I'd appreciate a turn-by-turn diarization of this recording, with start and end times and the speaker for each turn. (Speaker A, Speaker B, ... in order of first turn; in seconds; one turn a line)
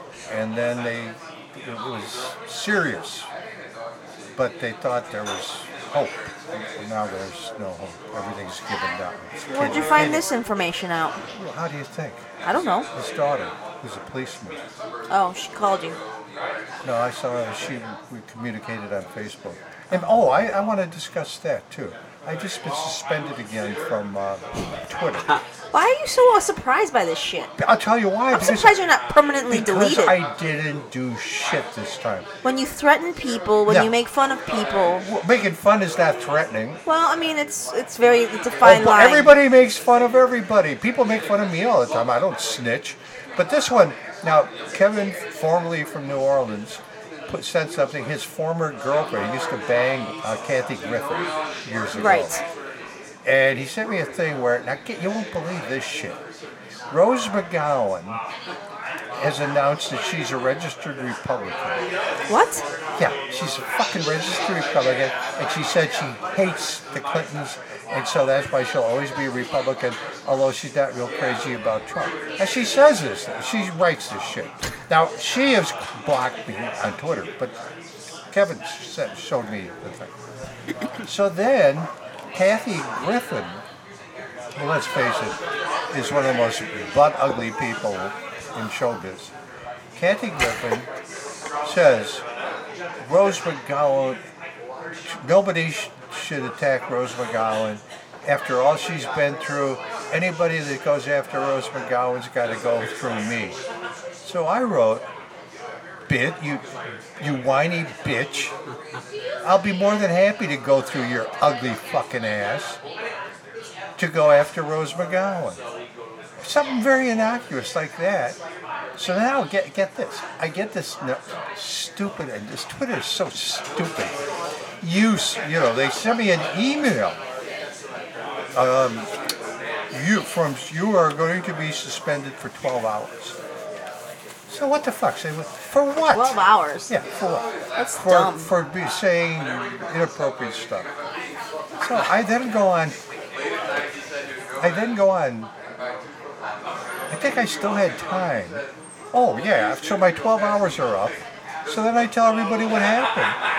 Speaker A: 0.3-3.3
Speaker A: 4.3-10.2
Speaker B: 9.5-11.2
Speaker A: 11.3-12.2
Speaker B: 12.4-12.9
Speaker A: 12.9-14.6
Speaker B: 15.1-16.0
Speaker A: 16.8-25.3
Speaker B: 25.7-27.5
Speaker A: 27.6-28.8
Speaker B: 28.3-30.2
Speaker A: 29.5-32.3
Speaker B: 32.4-35.0
Speaker A: 35.0-36.8
Speaker B: 36.9-39.3
Speaker A: 38.6-52.4
Speaker B: 51.9-52.4
Speaker A: 53.2-56.2
Speaker A: 56.9-58.2
Speaker A: 59.2-61.8
Speaker B: 62.3-62.6
Speaker A: 63.0-77.5
Speaker A: 78.3-80.2
Speaker A: 81.0-83.6
Speaker A: 84.5-85.4
Speaker A: 85.9-89.3
Speaker A: 90.0-90.9
Speaker A: 91.6-92.2
Speaker A: 93.0-94.2
Speaker A: 95.1-103.6
Speaker A: 104.2-105.0
Speaker A: 106.1-106.6
Speaker A: 107.2-108.5
Speaker A: 109.4-112.8
Speaker A: 114.0-115.6
Speaker A: 116.4-118.4
Speaker A: 119.0-124.1
Speaker A: 124.8-127.2
Speaker A: 128.5-129.1
Speaker A: 129.9-133.3
Speaker A: 134.5-136.3
Speaker B: 136.1-136.9
Speaker A: 136.9-140.9
Speaker B: 137.8-138.5
Speaker A: 141.8-142.9
Speaker A: 144.6-145.5
Speaker A: 147.1-153.4